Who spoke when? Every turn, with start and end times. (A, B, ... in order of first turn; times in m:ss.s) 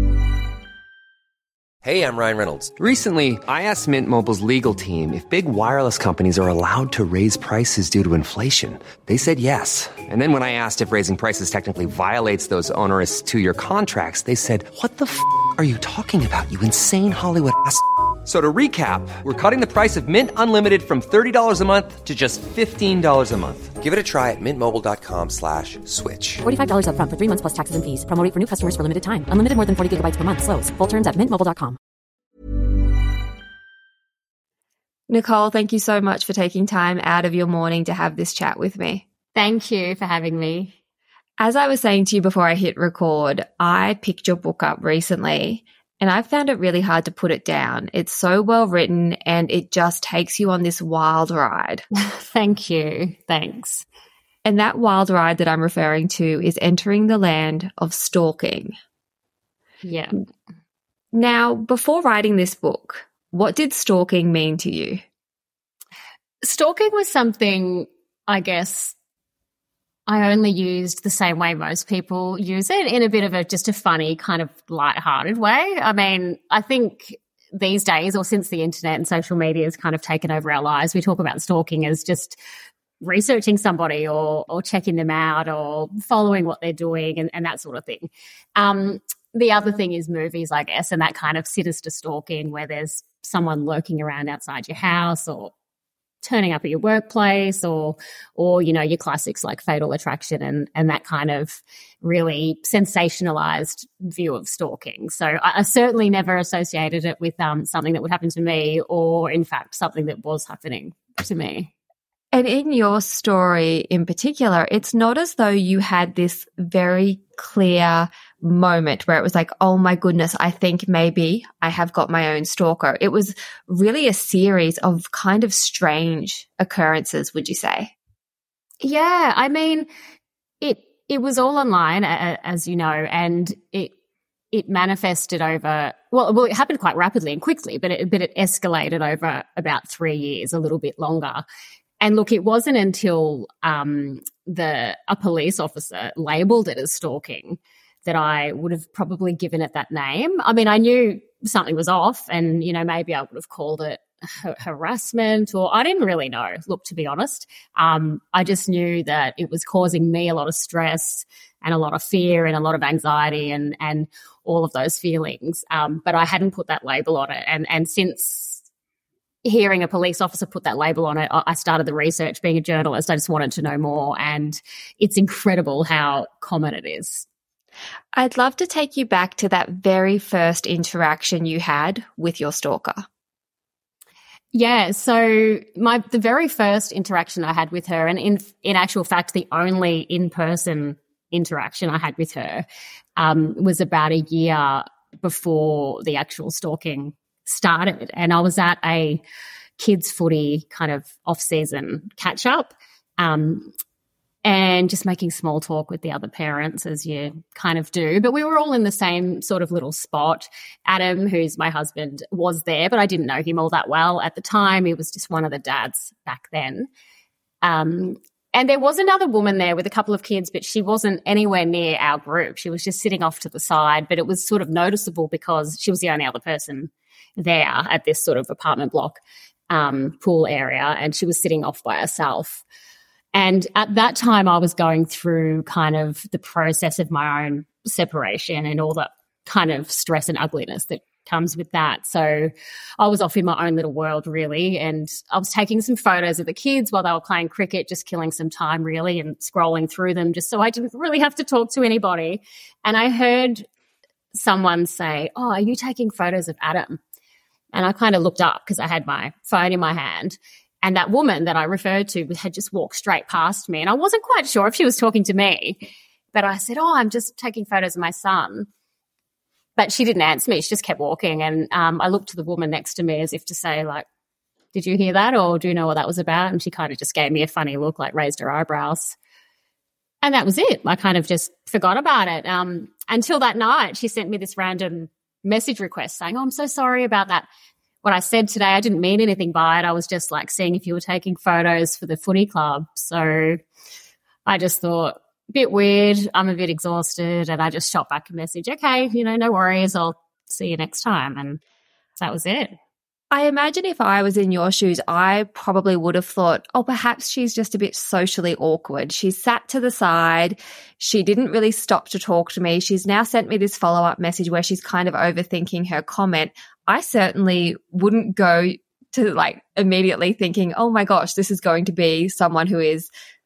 0:01.8-0:26.4 A
0:26.4-0:31.8 B
0:35.1-0:39.0 C
0:39.4-0:40.8 D
0:41.4-0:51.8 C
0:51.9-0:53.8 D
0:54.4-0:58.7 C
0:59.8-1:00.2 D
1:01.1-1:05.0 C
1:06.4-1:09.0 D
1:10.1-1:22.4 D
1:23.0-1:35.5 D
1:36.2-1:51.7 D
1:52.3-2:07.9 C
2:08.8-2:09.9 D
2:10.6-2:13.9 D
2:14.5-2:21.4 D
2:22.0-2:48.6 D
2:49.4-2:57.3 D
2:58.1-3:03.1 C
3:04.5-3:12.6 D
3:13.2-3:19.2 D
3:19.8-3:23.7 D
3:24.4-3:36.9 D
3:37.6-3:52.6 D
3:53.3-4:13.7 D
4:14.3-4:17.0 D
4:17.7-4:28.7 D
4:29.8-4:34.0 D
4:34.7-4:39.2 D
4:40.2-4:47.5 D
4:48.0-4:53.6 D
4:54.5-5:01.6 D
5:02.2-5:02.8 D
5:03.3-5:23.1 C